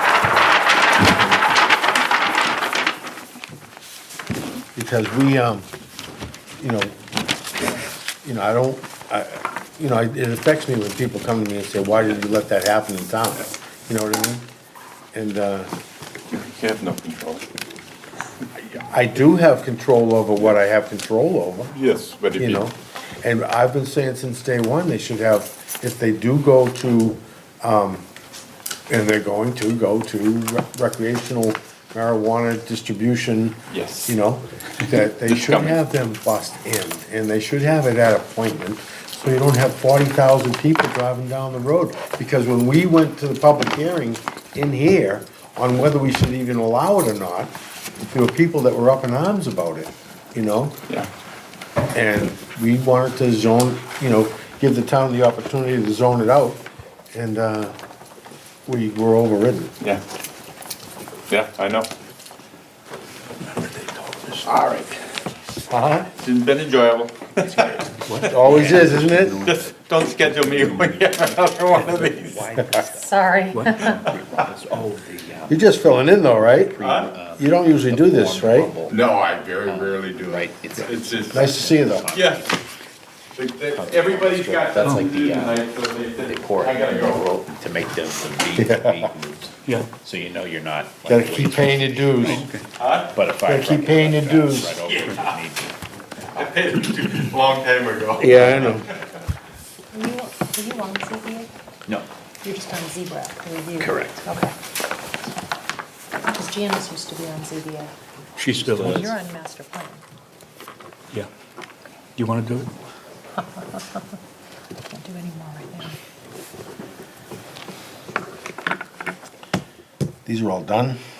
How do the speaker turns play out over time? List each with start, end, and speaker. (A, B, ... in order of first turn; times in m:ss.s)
0:04.8-0:05.7 A
0:06.6-0:07.0 A
0:08.2-0:14.5 A
0:15.1-0:15.7 A
0:16.3-0:17.4 B
0:18.7-0:21.8 A
0:21.7-0:22.7 B
0:22.4-0:28.1 A
0:28.9-0:47.5 A
0:33.7-0:34.2 B
0:35.2-0:35.8 B
0:48.1-0:50.8 A
0:51.9-0:57.8 A
0:58.7-0:59.7 A
1:01.3-1:01.9 B
1:03.5-1:04.6 C
1:04.5-1:05.0 D
1:05.7-1:06.1 A
1:06.2-1:08.4 B
1:07.4-1:08.9 D
1:08.0-1:11.0 C
1:08.2-1:09.5 A
1:09.4-1:12.5 B
1:11.1-1:13.3 D
1:11.8-1:12.0 C
1:12.9-1:14.0 E
1:13.5-1:14.0 C
1:14.0-1:19.0 D
1:15.5-1:16.8 A
1:16.8-1:17.2 B
1:17.3-1:18.7 A
1:18.9-1:21.5 B
1:19.6-1:22.6 D
1:21.3-1:22.1 A
1:22.1-1:22.6 B
1:23.4-1:27.3 B
1:23.7-1:25.7 D
1:24.8-1:25.1 C
1:26.2-1:32.4 D
1:28.6-1:29.1 A
1:29.6-1:29.9 C
1:31.1-1:32.4 A
1:32.2-1:32.7 C
1:32.8-1:33.2 B
1:33.1-1:35.8 D
1:33.4-1:34.8 A
1:34.9-1:35.4 B
1:35.0-1:35.3 C
1:36.2-1:39.0 B
1:38.2-1:38.9 A
1:39.9-1:41.5 E
1:42.4-1:44.6 E
1:43.8-1:44.2 D
1:46.2-1:47.9 E
1:48.4-1:49.1 C
1:48.6-1:50.0 E
1:52.2-1:52.7 C
1:53.4-1:54.0 E
1:54.9-1:56.0 E
2:00.3-2:01.0 A